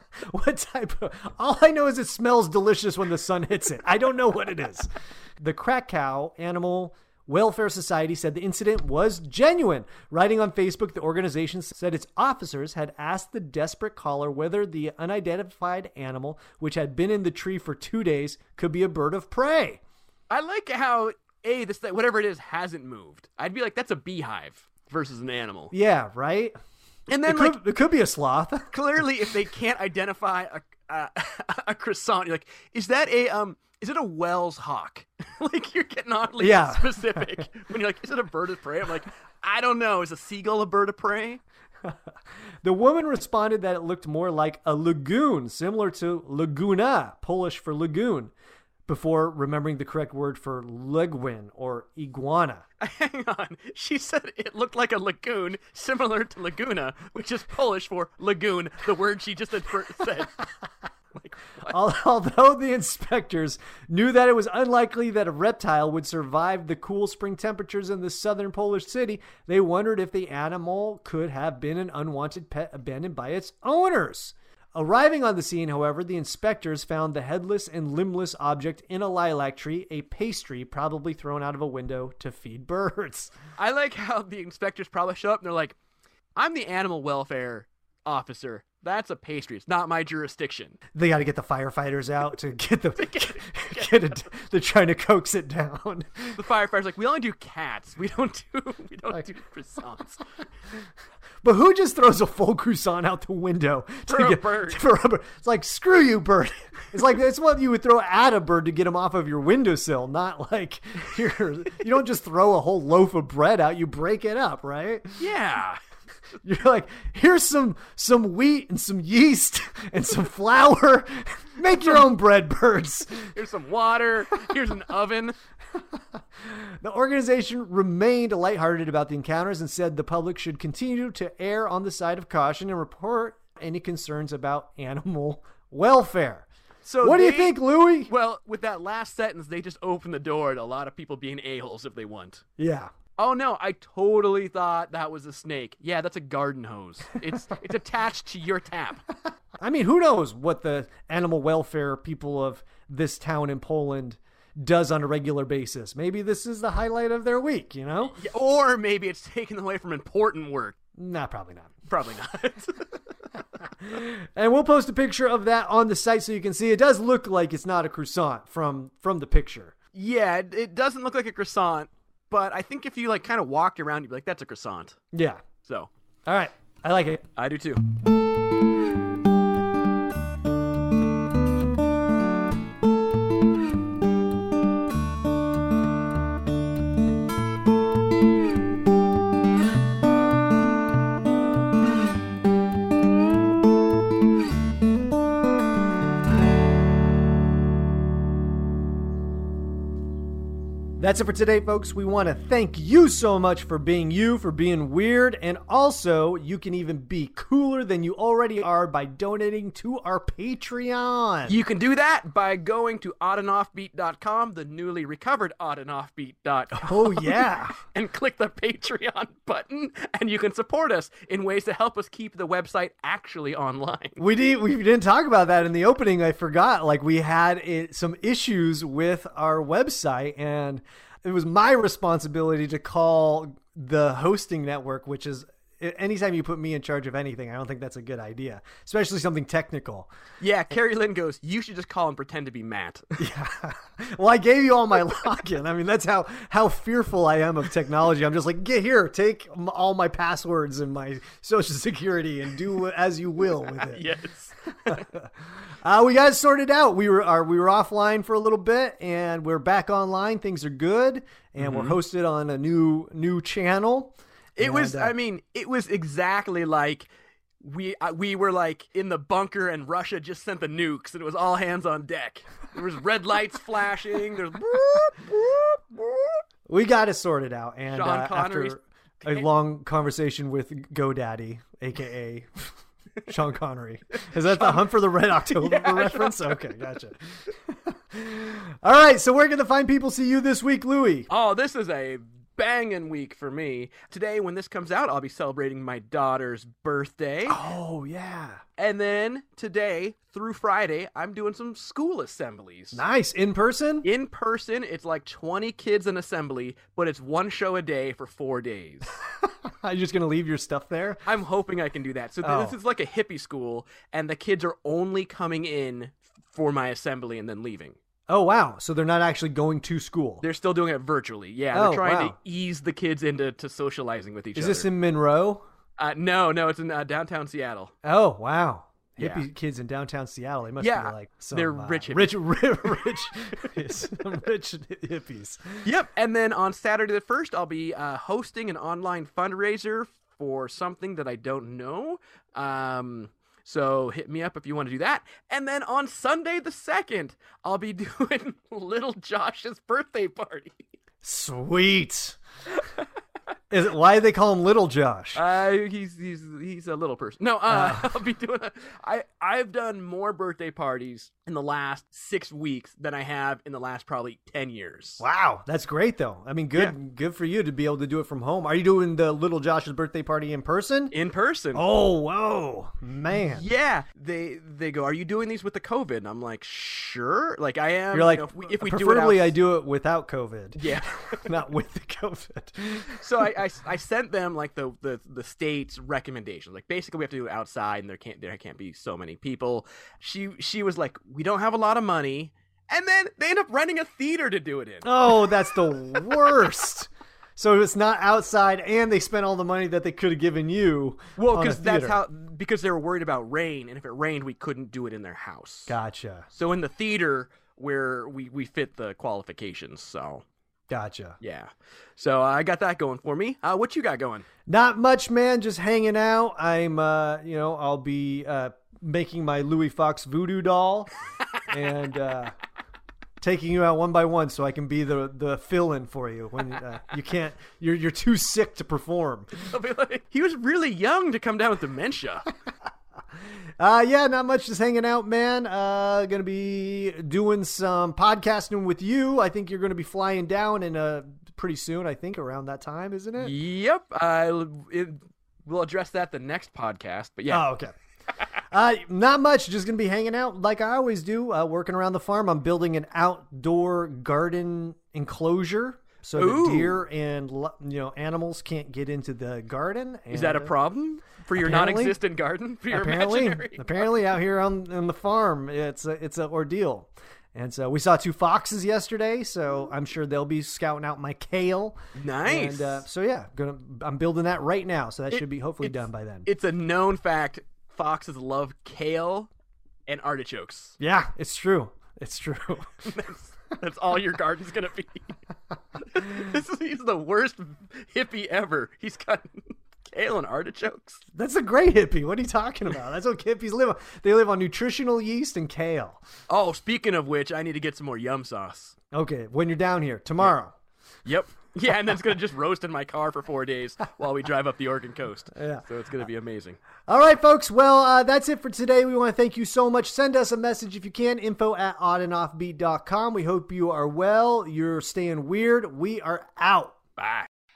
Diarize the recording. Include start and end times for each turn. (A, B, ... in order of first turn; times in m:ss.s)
0:00.2-0:19.8 A
0:20.3-0:25.7 B
0:25.7-0:26.6 A
0:27.1-0:27.6 B
0:27.2-0:28.7 A
0:28.7-0:41.4 B
0:36.4-0:37.4 A
0:42.6-0:48.3 A
0:48.9-0:52.6 A
0:52.8-1:00.4 B
1:01.1-1:01.8 B
1:01.7-1:23.3 A
1:23.6-1:25.8 B
1:26.4-1:30.8 B
1:31.0-1:36.4 A
1:33.0-1:34.3 B
1:36.4-1:40.2 B
1:41.4-1:55.2 A
1:44.1-1:44.8 B
1:55.2-1:55.8 B
1:56.4-2:03.3 A
2:03.3-2:05.4 B
2:06.0-2:16.5 A
2:16.8-2:22.4 B
2:17.0-2:18.1 A
2:22.6-2:22.9 A
2:23.2-2:29.0 B
2:29.6-2:38.2 A
2:38.1-2:40.8 B
2:41.0-2:41.8 A
2:41.9-2:42.9 B
2:43.8-2:49.7 A
2:49.9-2:55.0 B
2:55.1-2:55.4 A
2:55.6-2:55.9 B
2:56.2-2:57.2 A
2:57.4-2:57.8 B
3:21.0-3:31.6 A
3:31.5-3:44.2 B
3:36.8-3:37.8 A
3:44.2-4:00.1 A
4:00.4-4:03.2 B
4:03.2-4:14.0 A
4:13.9-4:15.0 B
4:14.9-4:15.3 A
4:15.8-4:25.1 A
4:21.6-4:22.0 B
4:24.6-4:27.1 B
4:27.6-4:36.4 B
4:36.7-4:42.7 A
4:37.9-4:39.5 B
4:43.3-4:51.3 A
4:44.5-4:44.8 B
4:45.4-4:46.6 B
4:51.3-4:57.6 B
4:57.5-4:58.6 A
4:58.8-5:03.0 B
5:02.9-5:04.1 A
5:04.0-5:09.1 B
5:09.4-5:11.2 A
5:11.2-5:18.0 B
5:12.4-5:12.8 A
5:18.3-5:20.4 A
5:20.4-5:24.9 B
5:21.7-5:22.4 A
5:24.5-5:25.6 A
5:26.0-5:27.9 B
5:28.0-5:35.8 A
5:29.2-5:29.4 B
5:30.8-5:33.1 B
5:35.8-5:50.8 B
5:51.2-5:52.4 A
5:53.7-5:55.4 A
5:55.3-6:05.2 B
5:57.7-5:58.1 A
6:05.2-6:11.1 A
6:11.1-6:11.8 B
6:11.8-6:13.6 A
6:13.4-6:19.5 B
6:18.1-6:23.2 A
6:20.8-6:21.4 B
6:23.1-6:35.1 B
6:35.0-6:42.2 A
6:41.4-6:46.0 B
6:45.9-6:46.5 A
6:46.5-6:50.4 B
6:50.9-6:51.4 A
6:51.4-6:54.5 B
6:54.7-7:01.1 A
7:01.7-7:02.5 A
7:03.4-7:09.5 A
7:09.6-7:12.5 B
7:13.8-7:23.5 A
7:23.4-7:27.6 B
7:27.5-7:27.9 A
7:28.7-7:40.7 A
7:36.4-7:37.0 B
7:40.3-7:44.2 B
7:41.6-7:42.2 A
7:42.9-7:56.5 A
7:52.2-7:53.0 B
7:56.5-7:59.5 B
8:00.1-8:01.0 B
8:01.0-8:03.0 A
8:03.0-8:05.3 B
8:06.1-8:11.2 B
8:11.3-8:16.2 A
8:16.5-8:19.0 B
8:19.1-8:20.8 A
8:21.2-8:26.8 B
8:25.5-8:25.8 A
8:27.1-8:37.0 A
8:37.2-8:37.5 B